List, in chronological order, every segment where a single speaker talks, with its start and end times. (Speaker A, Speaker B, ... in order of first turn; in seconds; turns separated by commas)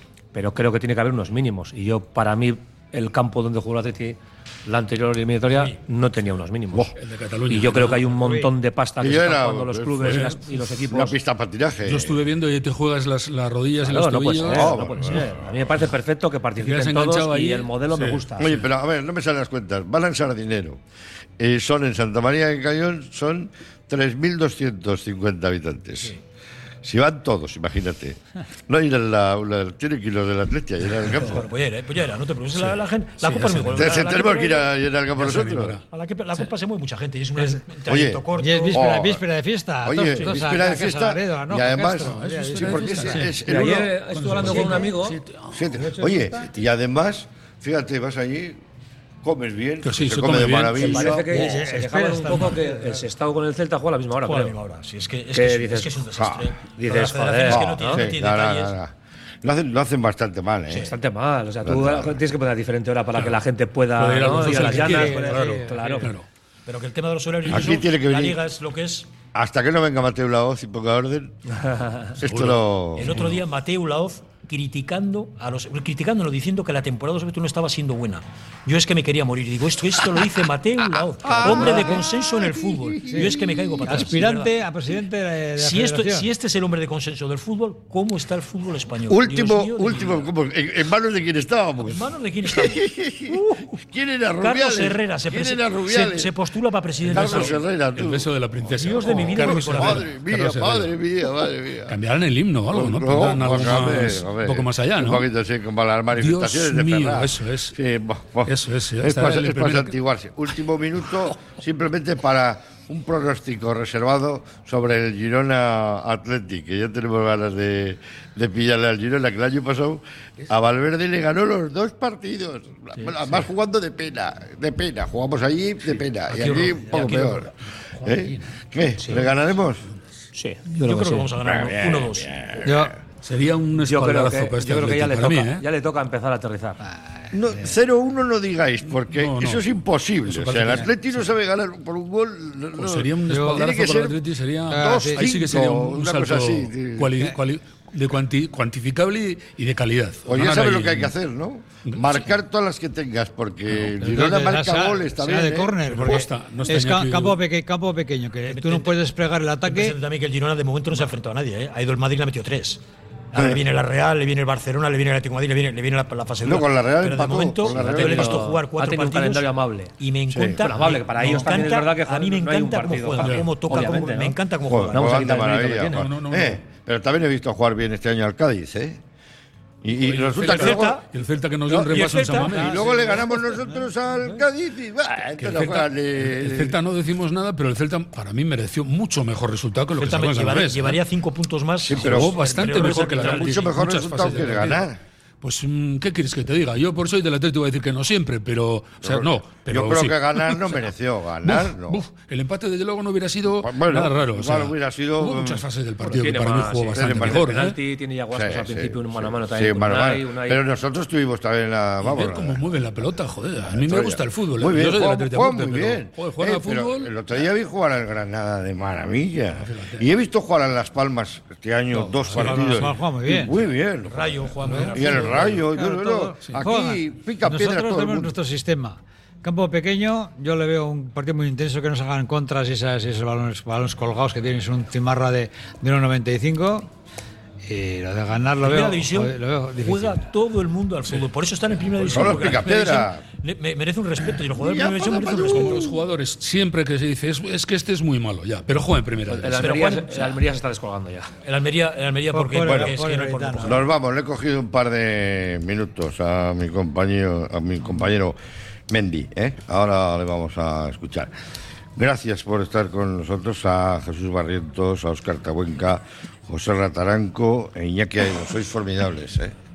Speaker A: 0.3-6.9, Speaker B: 5.5-5.7, Speaker C: 6.8-8.2, Speaker A: 7.5-11.2, Speaker D: 8.2-8.5, Speaker E: 9.0-10.3, Speaker C: 10.0-10.4, Speaker E: 10.9-12.2, Speaker C: 11.8-14.9, Speaker A: 13.8-18.6, Speaker E: 14.4-15.6, Speaker C: 16.6-18.5, Speaker E: 18.4-20.8, Speaker E: 21.4-26.1, Speaker E: 26.8-31.4, Speaker B: 31.0-34.7, Speaker C: 32.5-33.9, Speaker E: 33.7-35.8, Speaker C: 35.1-35.8, Speaker B: 35.9-38.8, Speaker E: 37.9-39.2, Speaker D: 38.4-43.6, Speaker E: 39.8-43.9, Speaker C: 42.0-45.7, Speaker A: 43.4-45.2, Speaker D: 44.4-44.9, Speaker E: 45.5-48.6, Speaker D: 45.8-46.5, Speaker E: 49.2-51.6, Speaker C: 49.8-51.1, Speaker A: 50.7-54.5, Speaker D: 51.2-53.0, Speaker B: 54.2-58.7, Speaker A: 55.3-56.0, Speaker E: 56.1-56.5, Speaker A: 56.7-58.1, Speaker E: 57.5-60.9, Speaker A: 60.7-66.1, Speaker E: 61.6-62.2, Speaker C: 63.1-63.4, Speaker C: 63.9-66.2, Speaker D: 64.2-66.1, Speaker B: 66.7-69.1, Speaker E: 67.5-68.4, Speaker E: 69.3-71.3, Speaker A: 71.5-72.1, Speaker E: 72.2-73.2, Speaker C: 72.2-73.4, Speaker B: 73.0-84.6, Speaker E: 81.2-84.1, Speaker D: 81.4-82.0, Speaker D: 83.1-86.3, Speaker B: 85.6-90.3, Speaker E: 89.1-96.3, Speaker B: 91.8-93.8, Speaker B: 94.4-97.6, Speaker E: 97.1-98.3, Speaker C: 97.1-100.9, Speaker B: 98.8-100.1, Speaker E: 99.1-102.0, Speaker C: 101.9-105.2, Speaker E: 102.7-129.8, Speaker C: 106.2-107.7, Speaker C: 108.5-109.9, Speaker B: 126.3-127.4, Speaker C: 128.1-128.3, Speaker A: 130.3-131.3, Speaker B: 130.8-132.3, Speaker E: 131.4-133.0, Speaker D: 132.6-133.0, Speaker C: 133.2-135.6, Speaker A: 133.8-136.8, Speaker D: 136.8-137.8, Speaker E: 137.3-147.2, Speaker C: 139.0-139.6, Speaker C: 140.3-140.9, Speaker D: 140.6-140.8, Speaker C: 142.8-151.1, Speaker D: 143.3-143.7, Speaker D: 144.7-145.3, Speaker E: 150.3-156.0, Speaker C: 151.9-152.2, Speaker D: 154.0-159.9, Speaker C: 155.9-157.4, Speaker B: 158.5-158.9, Speaker B: 159.7-162.8, Speaker B: 163.3-169.5, Speaker E: 163.3-163.6, Speaker E: 166.4-168.4, Speaker A: 167.7-169.9, Speaker B: 170.0-175.3, Speaker E: 170.3-170.6, Speaker A: 170.6-176.1, Speaker C: 173.2-173.5, Speaker E: 174.7-179.0, Speaker C: 175.8-176.6, Speaker E: 179.8-181.0, Speaker C: 179.9-182.8, Speaker B: 180.4-181.0, Speaker B: 181.7-182.4, Speaker D: 181.9-184.4, Speaker E: 182.4-186.8, Speaker C: 185.3-191.0, Speaker B: 190.0-193.7, Speaker E: 191.9-195.0, Speaker C: 191.9-194.8, Speaker C: 195.4-200.8, Speaker E: 199.0-202.0, Speaker C: 201.4-207.8, Speaker E: 203.6-205.6, Speaker A: 206.0-210.6, Speaker E: 206.9-207.4, Speaker E: 208.3-212.8, Speaker C: 212.0-217.1, Speaker E: 213.7-228.3, Speaker C: 219.6-220.1, Speaker C: 222.2-222.9, Speaker D: 222.3-223.6, Speaker B: 224.1-225.7, Speaker D: 224.6-236.9, Speaker D: 237.7-240.2, Speaker B: 238.6-245.9, Speaker E: 242.0-243.2, Speaker E: 244.6-245.9, Speaker C: 245.3-249.8, Speaker A: 249.3-251.3, Speaker B: 249.6-250.4, Speaker B: 251.4-253.8, Speaker D: 252.3-253.8, Speaker E: 252.6-252.9, Speaker E: 253.6-258.4, Speaker E: 258.9-261.3, Speaker E: 261.9-269.5